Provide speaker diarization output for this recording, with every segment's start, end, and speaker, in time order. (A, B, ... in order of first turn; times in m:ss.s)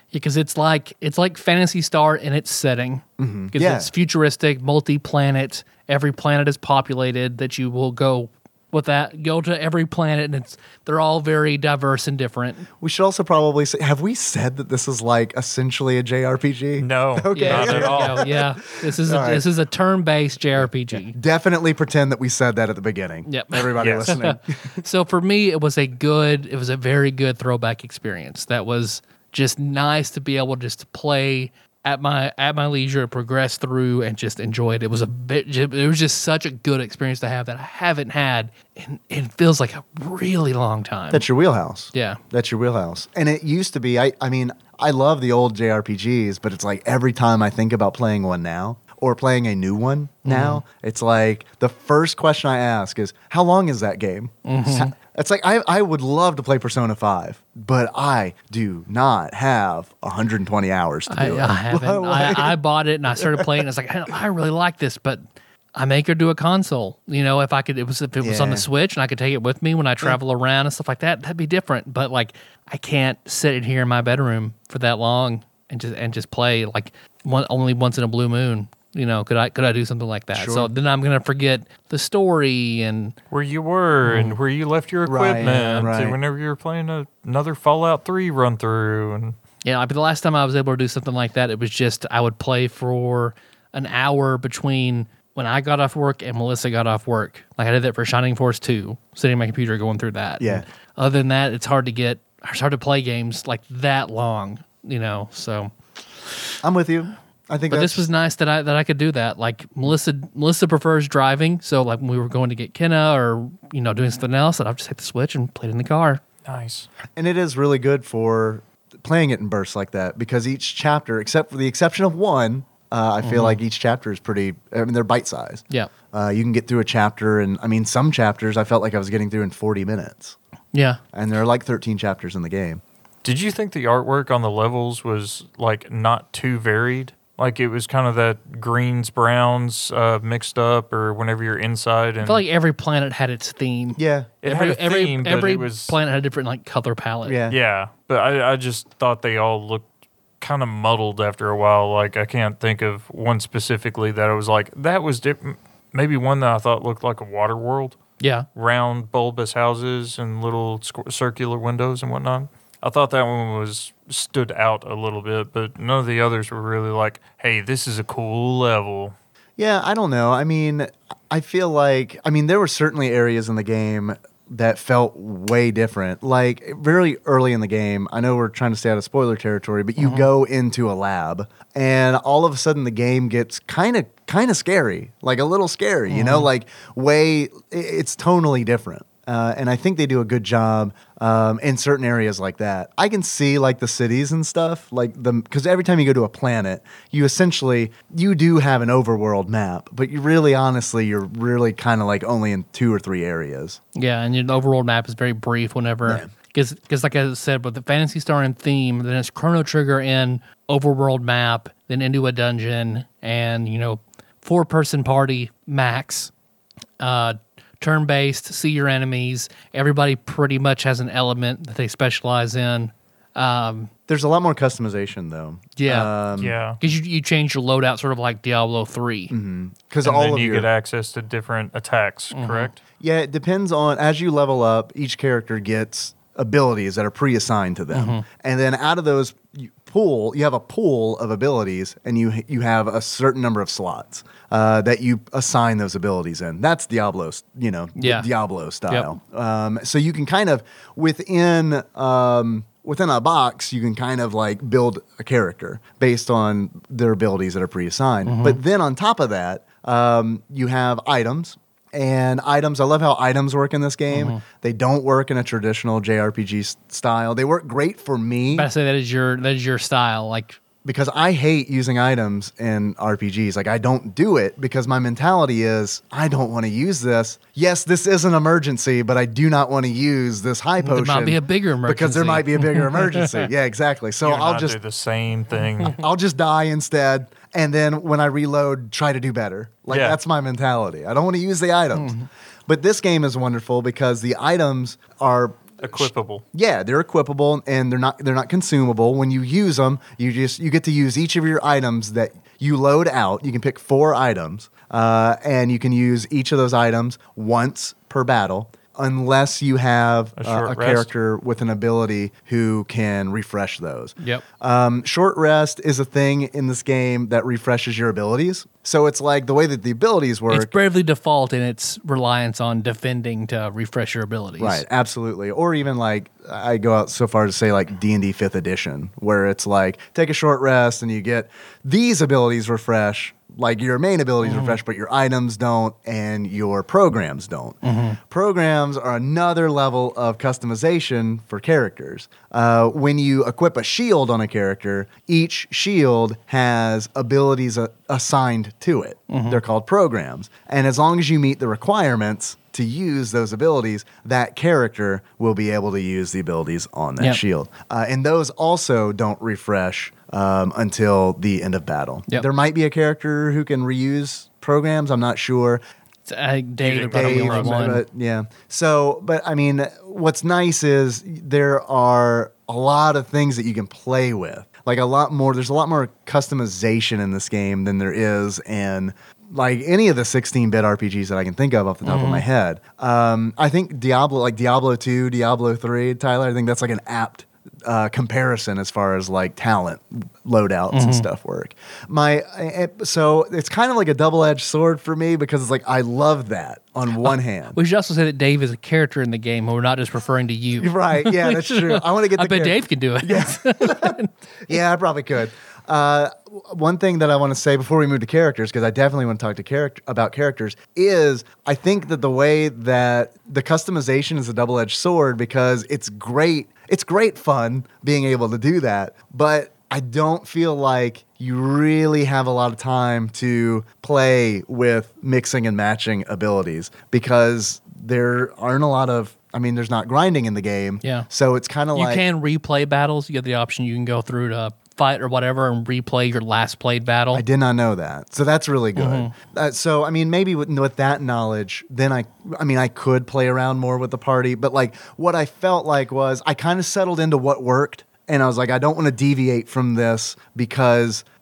0:00.1-0:12.7 A
0:03.2-0:03.9 B
0:12.8-0:19.5 B
0:16.8-0:18.4 C
0:17.3-0:21.2 A
0:20.6-0:24.8 B
0:23.3-0:41.3 A
0:23.8-0:24.2 C
0:41.1-1:02.6 B
0:41.9-0:42.2 A
0:50.2-0:50.6 A
0:54.4-0:54.9 A
1:01.1-1:23.2 A
1:03.2-1:03.4 B
1:08.2-1:08.7 B
1:20.3-1:20.7 B
1:23.3-1:29.4 C
1:24.1-1:24.4 A
1:25.1-1:26.2 B
1:25.4-1:25.7 A
1:29.6-1:45.7 A
1:40.4-1:40.7 B
1:46.6-1:48.1 B
1:47.7-1:56.2 A
1:56.4-1:56.9 C
1:57.2-2:10.4 B
2:03.2-2:03.6 A
2:10.7-2:11.0 A
2:11.1-2:12.8 B
2:13.2-2:22.4 C
2:22.2-2:27.4 A
2:24.0-2:24.3 B
2:24.4-2:26.0 C
2:27.2-2:27.6 B
2:27.5-2:29.9 C
2:30.4-2:38.0 C
2:38.2-2:38.5 A
2:38.6-2:49.1 C
2:49.6-3:23.8 B
3:00.0-3:00.3 A
3:06.1-3:06.5 A
3:24.0-3:36.3 A
3:37.0-3:43.9 A
3:44.1-3:46.6 B
3:45.8-3:46.1 A
3:46.4-3:46.8 C
3:46.8-3:49.3 A
3:49.3-3:50.7 B
3:50.0-3:52.8 C
3:52.3-3:52.7 A
3:53.0-4:28.7 B
3:57.9-3:58.2 A
4:08.0-4:08.3 A
4:08.9-4:09.2 A
4:18.2-4:18.6 A
4:24.1-4:24.4 A
4:28.5-4:30.6 A
4:30.8-4:44.8 B
4:40.8-4:43.4 A
4:44.2-4:46.0 C
4:45.9-4:52.2 B
4:49.9-4:50.2 C
4:52.0-4:52.3 A
4:52.7-5:20.7 B
4:55.8-4:56.4 C
5:10.4-5:11.1 C
5:20.5-5:24.8 A
5:24.6-6:05.8 B
5:34.4-5:34.8 A
5:37.8-5:38.2 A
5:49.3-5:49.6 A
6:06.3-6:08.0 A
6:06.8-6:07.8 C
6:07.1-6:37.8 B
6:22.0-6:22.4 A
6:30.9-6:31.3 A
6:37.7-6:44.3 A
6:40.8-7:12.2 B
7:11.0-7:11.3 A
7:11.9-7:17.4 A
7:17.3-7:31.2 B
7:19.0-7:19.3 A